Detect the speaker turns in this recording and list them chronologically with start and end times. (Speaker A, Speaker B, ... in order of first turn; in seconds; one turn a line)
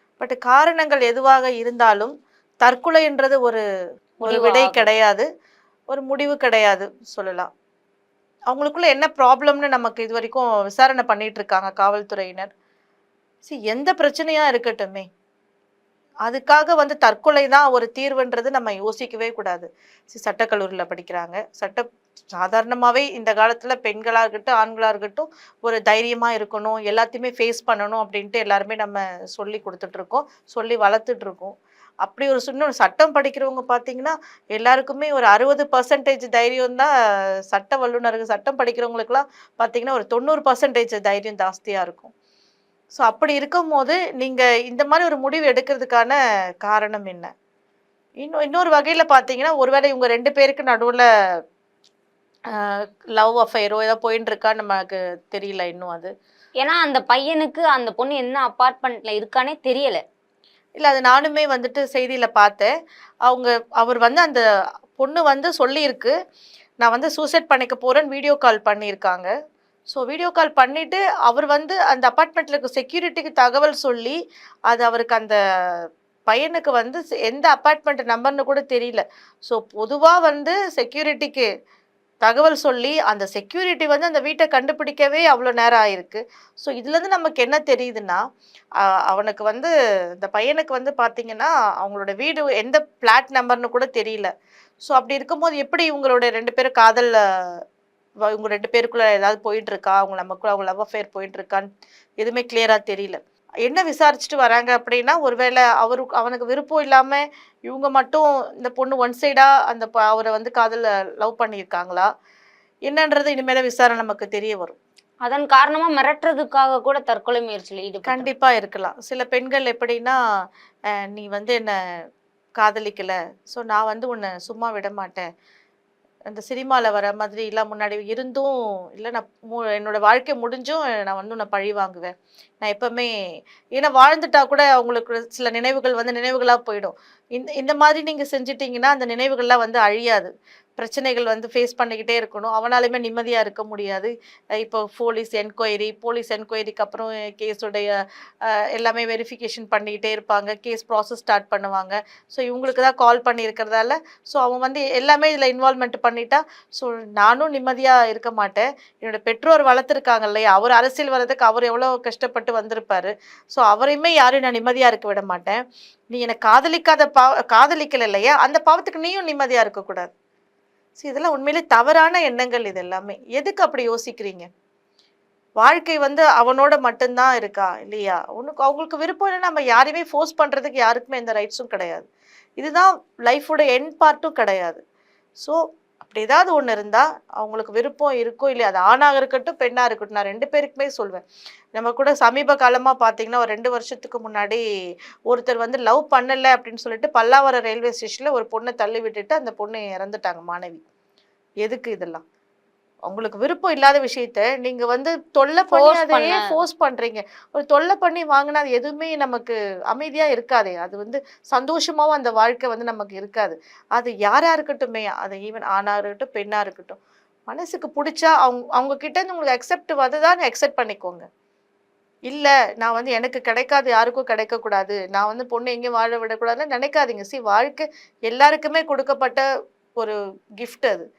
Speaker A: 0.2-3.6
Speaker B: 4.2-4.9
Speaker A: 4.2-5.2
Speaker A: 5.9-7.5
Speaker A: 8.5-12.5
Speaker A: 13.4-15.1
Speaker A: 16.2-36.9
Speaker A: 37.5-42.1
Speaker A: 43.0-47.3
Speaker A: 48.2-51.0
Speaker A: 52.5-56.1
Speaker B: 56.6-60.0
Speaker A: 60.8-62.7
Speaker A: 63.2-64.4
Speaker A: 65.0-66.1
Speaker A: 66.8-69.3
Speaker A: 69.9-74.2
Speaker A: 74.7-81.5
Speaker A: 82.2-88.2
Speaker A: 89.1-94.3
Speaker A: 94.8-97.6
Speaker A: 98.3-101.7
Speaker A: 102.2-112.1
Speaker A: 112.9-114.8
Speaker B: 115.2-118.3
Speaker A: 118.0-120.2
Speaker A: 121.0-121.7
Speaker A: 122.6-125.2
Speaker A: 126.3-133.1
Speaker A: 133.8-170.1
Speaker A: 171.0-174.5
Speaker A: 175.6-182.1
Speaker A: 182.6-184.8
Speaker A: 185.4-191.2
Speaker A: 191.8-194.6
Speaker A: 195.3-200.8
Speaker A: 201.6-202.2
Speaker A: 203.1-221.3
Speaker B: 205.7-206.5
Speaker A: 222.3-229.4
Speaker A: 230.0-231.0